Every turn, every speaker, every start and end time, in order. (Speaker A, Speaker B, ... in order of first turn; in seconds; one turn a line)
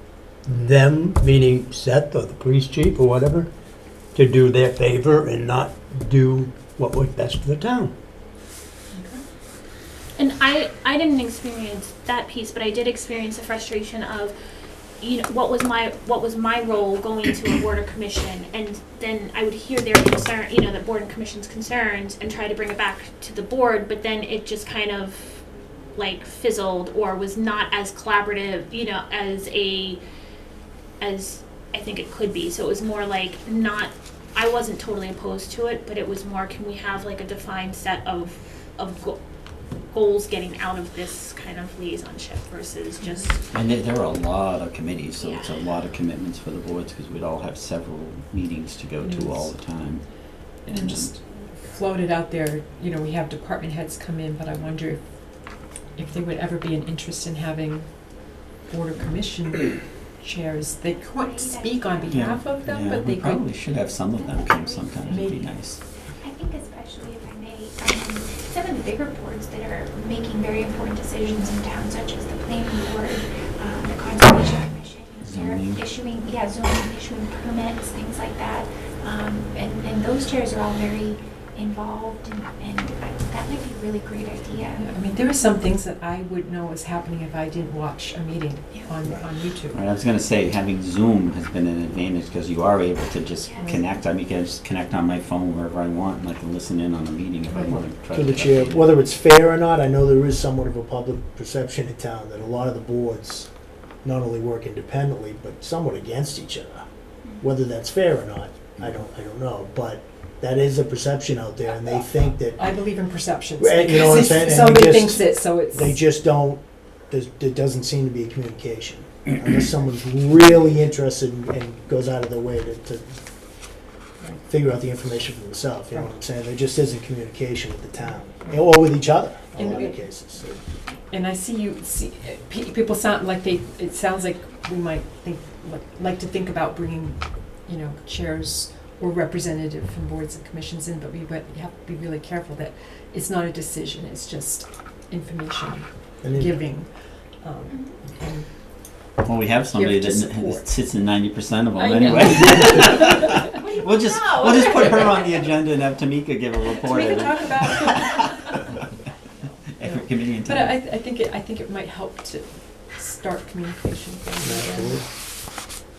Speaker A: 0.4-3.5
Speaker A: 4.1-7.9
Speaker B: 8.9-9.2
Speaker C: 10.2-14.3
Speaker C: 15.0-30.0
Speaker C: 31.0-39.2
Speaker C: 39.8-43.4
Speaker D: 43.5-51.1
Speaker C: 45.2-45.6
Speaker B: 49.0-49.5
Speaker B: 50.7-63.4
Speaker D: 62.1-65.8
Speaker B: 65.1-65.4
Speaker E: 66.2-75.1
Speaker D: 75.2-75.9
Speaker E: 75.8-84.7
Speaker B: 84.7-89.8
Speaker D: 89.7-98.9
Speaker B: 97.5-97.8
Speaker F: 98.1-103.5
Speaker F: 104.0-106.8
Speaker F: 107.4-112.6
Speaker B: 112.6-116.0
Speaker F: 113.6-123.2
Speaker F: 124.5-130.6
Speaker B: 129.5-130.0
Speaker B: 131.1-148.5
Speaker F: 146.2-146.6
Speaker D: 149.2-158.2
Speaker B: 149.7-150.7
Speaker B: 151.8-153.4
Speaker B: 156.9-158.6
Speaker D: 159.8-160.8
Speaker B: 159.8-165.0
Speaker F: 164.4-165.0